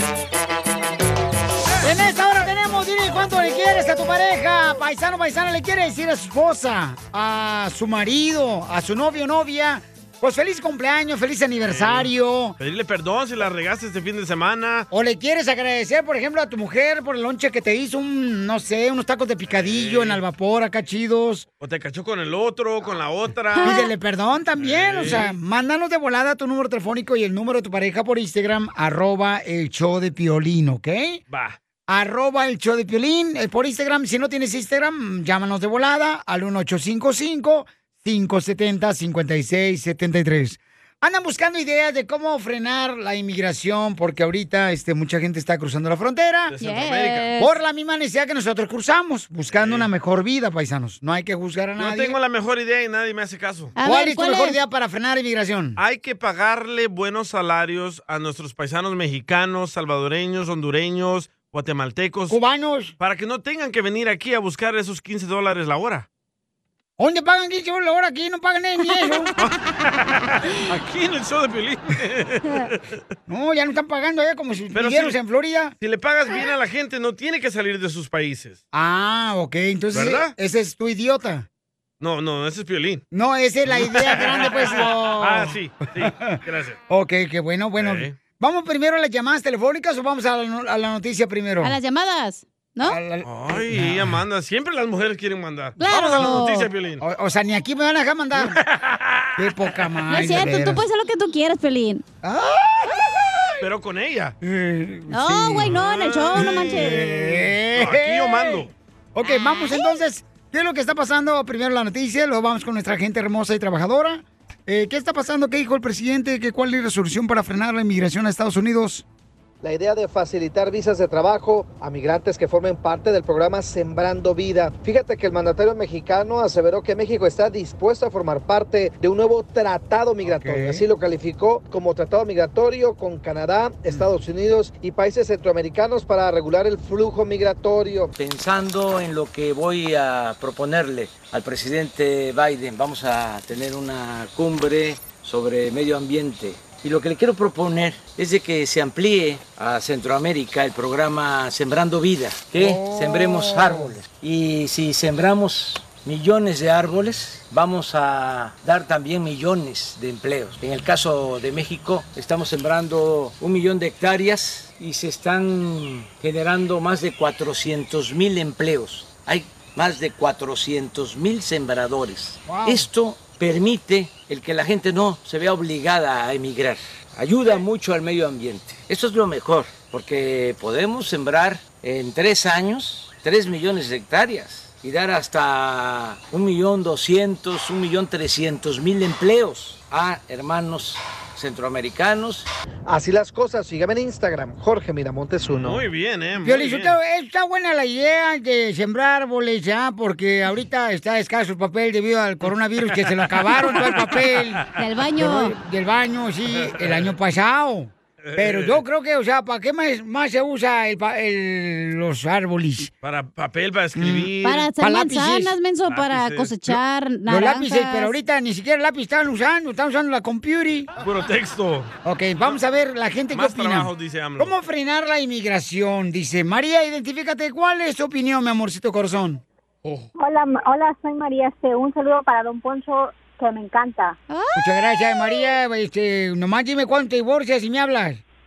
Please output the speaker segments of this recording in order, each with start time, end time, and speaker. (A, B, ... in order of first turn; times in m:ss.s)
0:01.8-0:12.6 A
0:11.7-0:14.9 B
0:14.9-0:21.4 A
0:19.5-0:20.2 B
0:21.6-0:23.9 B
0:23.6-0:23.9 C
0:23.6-0:31.2 A
0:24.6-0:25.4 B
0:31.3-0:31.6 B
0:31.9-0:46.6 A
0:46.5-0:47.3 B
0:46.6-0:47.5 C
0:47.4-0:52.2 A
0:49.5-0:49.9 B
0:51.8-0:53.8 B
0:53.8-0:54.6 C
0:53.8-0:55.8 A
0:55.8-1:02.4 B
1:02.3-1:02.9 A
1:03.0-1:06.0 B
1:07.0-1:09.3 A
1:10.1-1:12.9 B
1:13.3-1:15.7 A
1:14.7-1:15.2 B
1:15.8-1:18.6 B
1:18.7-1:21.5 A
1:19.9-1:20.3 B
1:22.0-1:23.0 B
1:23.1-1:26.4 A
1:23.7-1:26.8 B
1:26.9-1:31.7 A
1:27.8-1:28.1 B
1:31.6-1:33.0 C
1:32.8-1:34.2 A
1:33.2-1:37.0 B
1:35.8-1:36.7 C
1:35.9-1:36.4 A
1:37.0-1:38.6 A
1:38.4-1:39.4 B
1:39.4-1:40.8 A
1:40.1-1:42.0 C
1:42.2-1:43.5 A
1:43.6-1:44.4 B
1:44.4-1:45.8 A
1:45.1-1:47.1 C
1:45.7-1:48.7 B
1:46.3-1:59.0 A
1:49.2-1:50.0 C
1:59.6-2:18.1 D
2:10.2-2:10.8 A
2:18.2-3:12.5 E
2:32.6-2:33.9 A
2:52.4-2:52.9 A
3:12.9-3:15.8 D
3:15.6-3:16.9 B
3:16.4-3:24.6 A
3:22.9-3:24.8 B
3:24.8-3:25.5 C
3:25.2-3:32.9 A
3:26.6-3:27.1 B
3:28.2-3:28.8 B
3:33.0-3:34.7 B
3:34.0-3:35.5 A
3:34.4-3:38.1 C
3:35.8-3:36.8 B
3:37.3-3:40.9 A
3:41.0-3:41.9 B
3:42.0-3:49.4 A
3:43.3-3:44.5 B
3:50.1-3:54.2 F
3:54.3-3:54.6 C
3:54.5-3:58.2 A